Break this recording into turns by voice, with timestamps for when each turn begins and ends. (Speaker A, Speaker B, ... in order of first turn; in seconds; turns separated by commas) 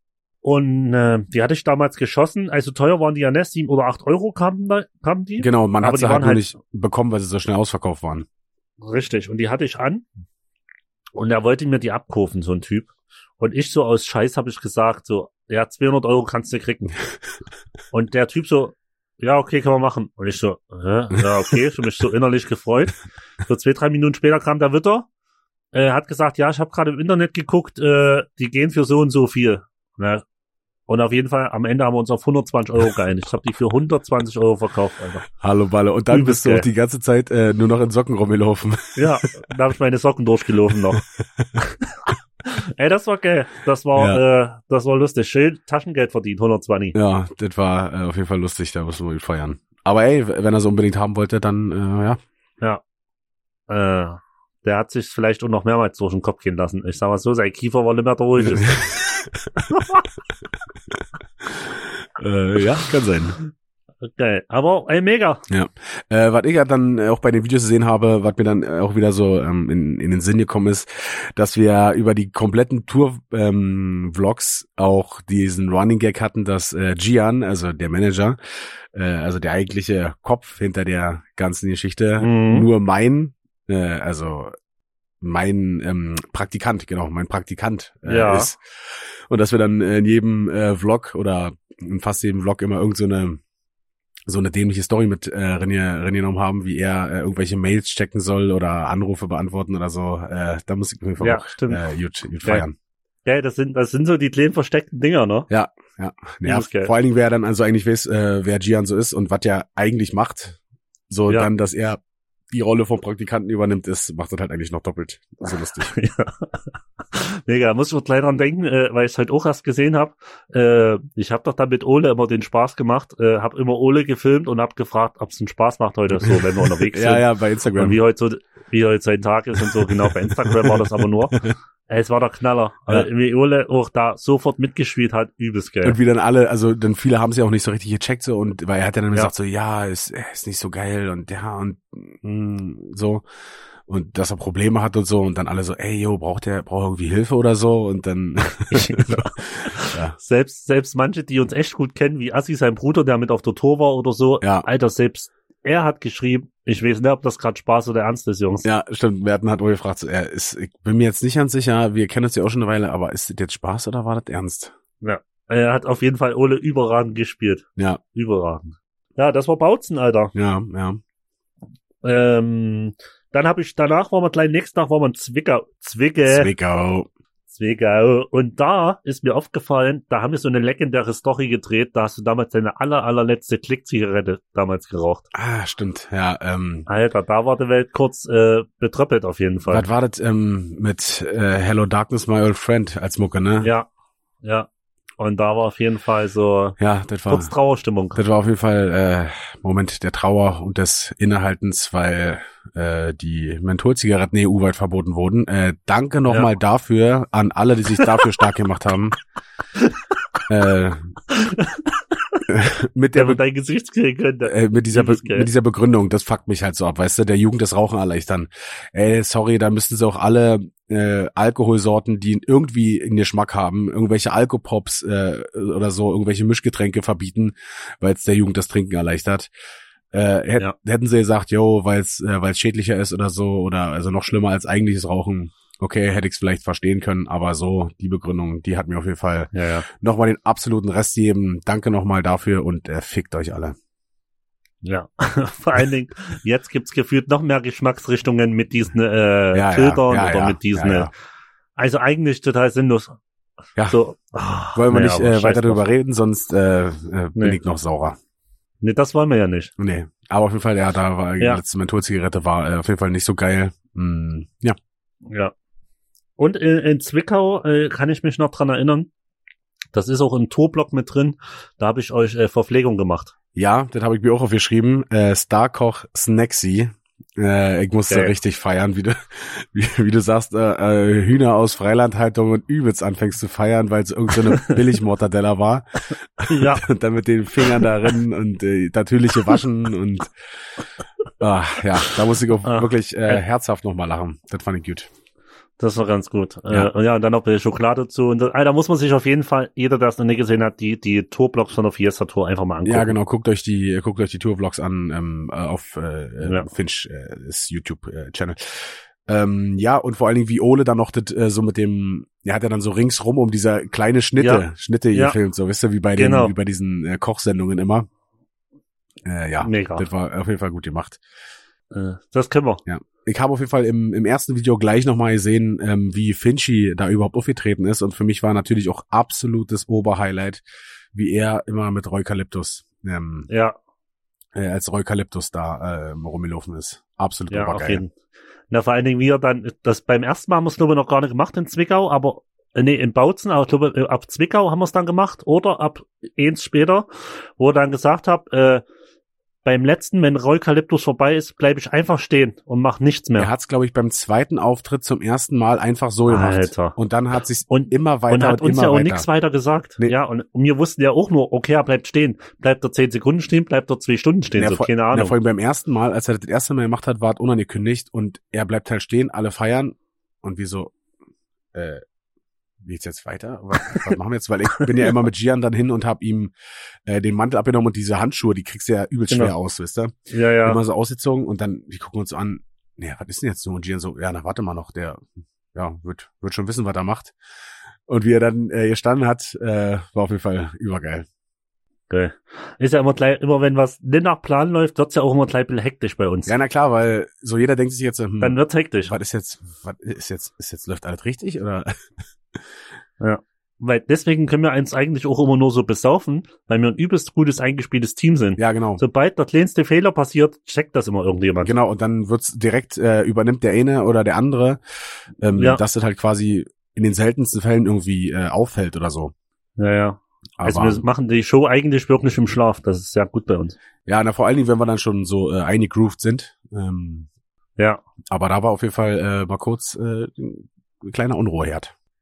Speaker A: 0.4-6.4, Speaker B: 5.4-8.2, Speaker A: 8.8-10.0, Speaker A: 11.1-16.9, Speaker A: 17.9-22.9, Speaker A: 23.5-25.1, Speaker A: 25.7-30.2, Speaker A: 30.9-35.2, Speaker B: 35.4-39.4, Speaker A: 36.1-36.6, Speaker A: 39.0-41.0, Speaker B: 40.9-41.5, Speaker A: 41.6-46.9, Speaker B: 44.0-44.2, Speaker B: 46.9-52.2, Speaker A: 53.7-58.8, Speaker B: 58.4-59.6, Speaker A: 59.7-60.0, Speaker B: 61.5-63.4, Speaker A: 64.0-65.4, Speaker B: 65.5-78.4, Speaker B: 78.9-84.5, Speaker A: 82.2-82.7, Speaker B: 85.2-88.6, Speaker A: 88.0-88.5, Speaker B: 89.3-93.4, Speaker B: 94.3-102.7, Speaker A: 101.2-101.8, Speaker A: 103.2-105.5, Speaker B: 105.5-110.6, Speaker A: 106.4-106.9, Speaker B: 111.1-112.0, Speaker B: 112.5-115.9, Speaker A: 115.8-136.0, Speaker B: 126.2-128.0, Speaker B: 129.9-131.5, Speaker B: 135.8-143.2, Speaker B: 143.9-150.1, Speaker A: 148.7-158.6, Speaker B: 154.4-154.7, Speaker B: 158.6-164.7, Speaker A: 165.0-170.3, Speaker B: 170.3-171.0, Speaker A: 172.0-176.5, Speaker B: 176.3-177.1, Speaker A: 177.5-185.2, Speaker B: 185.3-186.9, Speaker A: 186.9-189.8, Speaker B: 189.7-193.7, Speaker A: 193.6-193.9, Speaker A: 194.4-194.7, Speaker A: 195.2-196.8, Speaker B: 196.8-197.5, Speaker A: 197.3-198.2, Speaker B: 198.1-209.2, Speaker B: 210.5-211.1, Speaker A: 211.3-212.4, Speaker B: 212.5-213.4, Speaker A: 213.1-215.5, Speaker B: 214.4-229.5, Speaker B: 230.1-243.8, Speaker A: 239.5-239.8, Speaker A: 244.8-251.1, Speaker B: 249.5-251.1, Speaker A: 251.8-253.2, Speaker A: 253.9-255.8, Speaker B: 254.7-258.1, Speaker A: 258.8-259.7, Speaker B: 259.8-264.8, Speaker A: 265.2-265.5, Speaker A: 266.4-269.1, Speaker A: 269.9-273.3, Speaker B: 273.5-290.3, Speaker A: 286.5-286.8, Speaker B: 291.4-295.1, Speaker A: 292.6-293.4, Speaker A: 295.8-303.1, Speaker B: 302.8-318.1, Speaker A: 306.4-306.7, Speaker A: 314.4-315.4, Speaker A: 316.2-316.5, Speaker B: 319.2-321.2, Speaker A: 319.6-320.1, Speaker A: 321.9-322.8, Speaker B: 322.9-330.6, Speaker B: 331.1-333.5, Speaker A: 333.5-333.8, Speaker B: 334.5-338.0, Speaker A: 337.5-338.1, Speaker A: 338.7-348.8, Speaker A: 349.6-353.5, Speaker B: 353.4-359.2, Speaker A: 356.3-356.9, Speaker A: 357.7-365.3, Speaker B: 364.6-370.9, Speaker B: 371.7-372.0, Speaker B: 372.8-376.5, Speaker B: 377.1-385.2, Speaker A: 380.3-380.8, Speaker B: 385.7-387.3, Speaker B: 388.1-391.3, Speaker A: 392.1-396.5, Speaker B: 396.5-401.9, Speaker A: 398.4-399.1, Speaker A: 403.2-411.7, Speaker B: 408.6-409.0, Speaker B: 411.6-414.8, Speaker B: 415.4-419.3, Speaker A: 415.5-415.8, Speaker A: 419.8-423.8, Speaker B: 420.6-421.0, Speaker B: 424.1-427.3, Speaker A: 427.8-428.0, Speaker B: 428.3-431.9